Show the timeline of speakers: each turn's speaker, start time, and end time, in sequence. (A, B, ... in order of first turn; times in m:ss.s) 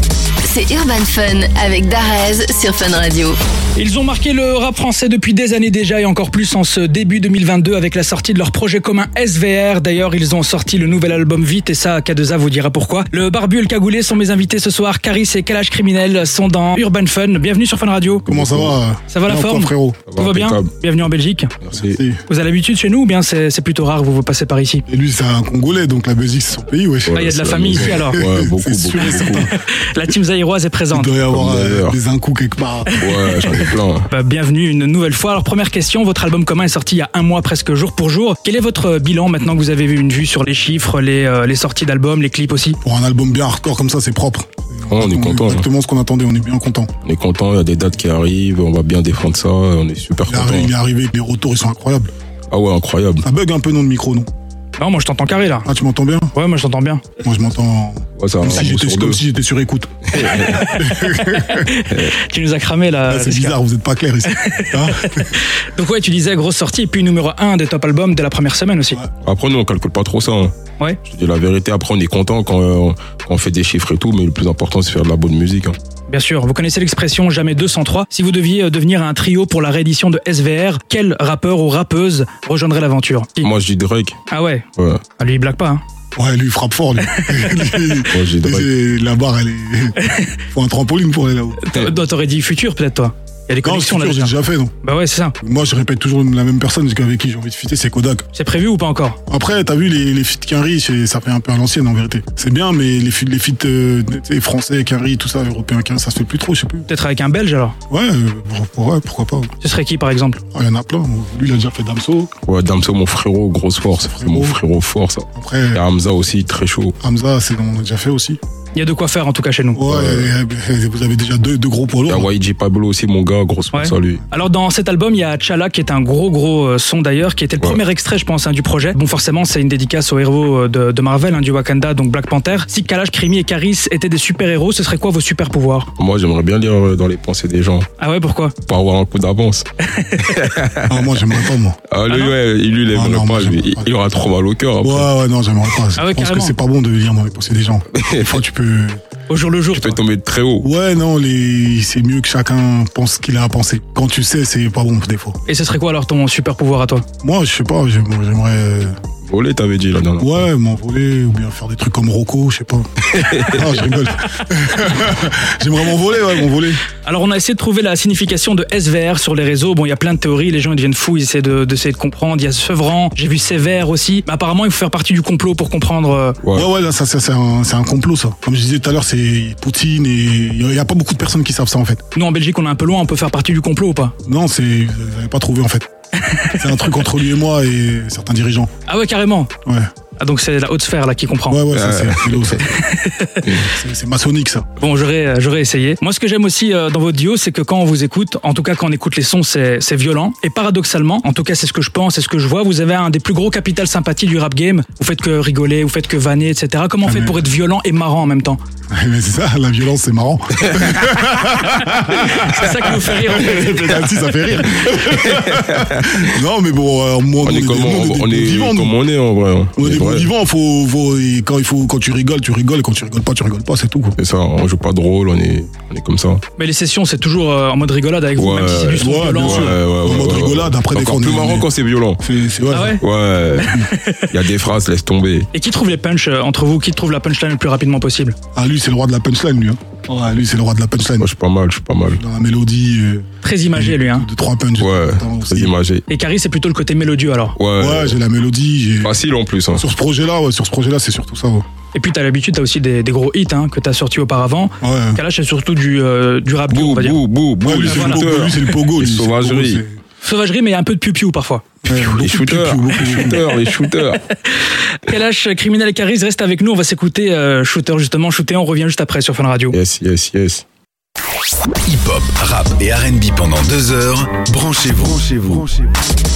0:00.4-0:03.4 A
0:03.8-0:18.3 B
0:18.2-0:18.8 C
0:18.3-0:20.0 D
0:19.1-0:21.5 B
0:20.1-0:20.7 C
0:21.6-0:22.0 C
0:21.7-0:22.2 D
0:22.3-0:24.8 B
0:24.9-0:29.5 D
0:27.0-0:29.5 C
0:27.1-0:28.2 B
0:29.0-0:31.1 B
0:30.9-0:33.6 D
0:31.3-0:32.0 C
0:32.9-0:42.8 B
0:33.0-0:34.1 C
0:42.8-0:46.9 D
0:44.9-0:45.6 C
0:47.0-0:50.7 C
0:50.3-0:52.1 D
0:52.5-0:53.2 C
0:53.2-0:54.3 D
0:54.8-0:55.7 B
0:55.6-0:56.3 D
0:56.3-0:57.0 B
0:57.2-1:01.7 D
0:58.2-0:59.2 C
1:00.1-1:00.8 C
1:00.3-1:03.6 B
1:03.1-1:05.3 D
1:04.2-1:09.0 B
1:09.2-1:10.5 C
1:11.0-1:15.8 C
1:16.1-1:23.5 B
1:23.4-1:24.2 C
1:24.3-1:24.6 B
1:25.2-1:25.8 B
1:26.2-1:30.0 D
1:27.1-1:28.0 B
1:28.1-1:28.7 C
1:30.5-1:31.7 D
1:31.6-1:35.3 B
1:33.6-1:34.7 D
1:35.4-1:38.2 D
1:38.3-1:39.2 B
1:39.3-1:46.9 D
1:46.9-1:47.7 B
1:47.9-1:49.5 D
1:49.6-1:50.4 B
1:50.5-1:52.3 D
1:52.4-1:57.0 C
1:54.1-1:54.6 D
1:55.3-1:55.8 D
1:57.0-1:58.4 D
1:58.7-1:59.9 B
1:59.7-2:02.3 D
1:59.8-2:00.3 C
2:02.0-2:04.2 C
2:03.7-2:15.9 B
2:16.0-2:17.9 C
2:18.0-2:18.6 B
2:18.6-2:19.6 C
2:19.9-2:20.3 B
2:20.2-2:21.2 C
2:20.9-2:21.8 D
2:21.9-2:25.1 C
2:22.1-2:22.4 B
2:22.9-2:23.9 D
2:24.8-2:29.0 D
2:25.9-2:26.6 B
2:28.0-2:28.4 C
2:29.3-2:30.0 B
2:29.7-2:30.7 C
2:30.6-2:35.4 D
2:35.5-2:37.0 B
2:37.2-2:39.0 D
2:39.2-2:40.4 C
2:40.2-2:46.8 D
2:43.1-2:44.0 C
2:47.0-2:56.4 B
2:56.4-2:56.7 C
2:56.5-3:02.0 D
3:02.1-3:04.1 B
3:04.2-3:05.9 D
3:06.2-3:07.1 B
3:06.5-3:08.7 D
3:08.8-3:09.5 B
3:09.6-3:09.9 D
3:10.2-3:11.6 B
3:11.5-3:12.7 D
3:11.7-3:12.6 C
3:12.6-3:13.5 B
3:13.6-3:14.6 D
3:14.8-3:28.6 B
3:27.0-3:27.3 D
3:28.9-3:39.0 D
3:30.7-3:32.0 C
3:32.2-3:33.9 B
3:32.5-3:36.4 C
3:37.4-3:40.3 C
3:39.8-3:44.2 D
3:44.2-3:46.4 C
3:46.6-3:49.7 B
3:48.4-3:52.2 C
3:49.0-3:51.7 D
3:52.2-3:53.0 D
3:52.7-3:53.0 B
3:52.8-3:55.5 C
3:53.6-3:54.4 B
3:55.5-3:58.4 B
3:58.5-4:01.3 D
4:01.2-4:02.2 C
4:02.1-4:05.7 D
4:03.4-4:04.3 B
4:04.8-4:06.0 C
4:06.1-4:07.6 B
4:07.6-4:08.2 C
4:07.8-4:09.2 D
4:09.0-4:09.8 C
4:09.7-4:11.6 D
4:11.9-4:17.2 B
4:14.8-4:15.2 D
4:16.7-4:19.8 C
4:17.6-4:20.0 D
4:17.7-4:18.3 B
4:20.2-4:21.7 B
4:21.8-4:23.4 D
4:21.8-4:24.2 C
4:25.0-4:29.8 B
4:29.7-4:30.6 C
4:31.8-4:35.8 E